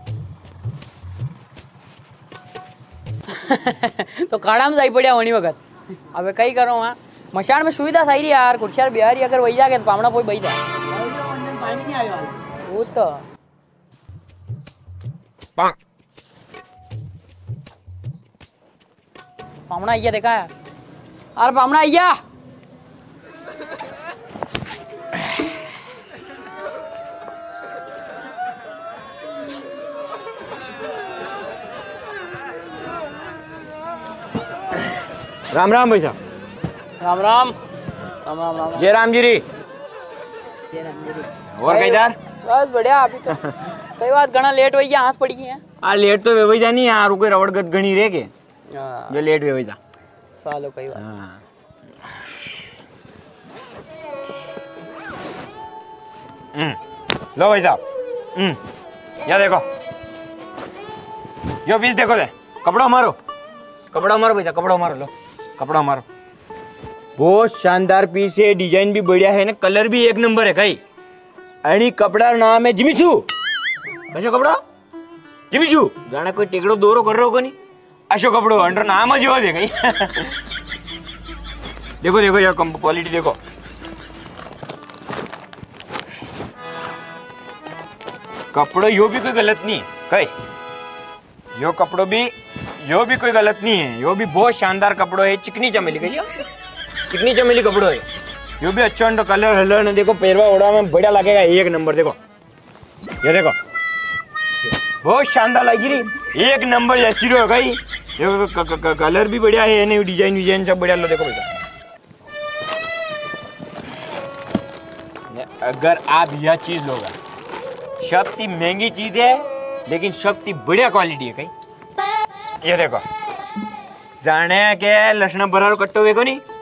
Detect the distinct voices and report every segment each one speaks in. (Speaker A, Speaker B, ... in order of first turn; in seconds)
Speaker A: 3.3-5.6, 6.1-13.2, 19.7-20.5, 21.4-22.2, 37.0-37.5, 38.2-38.9, 40.7-45.6, 48.7-49.2, 50.4-51.0
Speaker B: 35.5-36.2, 38.7-39.4, 41.5-42.2, 43.3-43.5, 45.8-48.3, 49.1-49.8, 50.9-51.4, 57.4-57.8, 58.3-58.6, 59.2-59.6, 61.6-63.2, 63.9-66.0, 67.2-70.8, 71.6-73.2, 74.1-74.6, 75.5-77.5, 78.1-80.4, 82.0-83.4, 88.5-90.3, 91.5-92.3, 92.8-96.3, 97.1-98.0, 98.6-102.2, 103.2-103.5, 104.7-111.5, 115.3-117.2, 118.0-121.5, 122.6-123.0, 124.2-126.4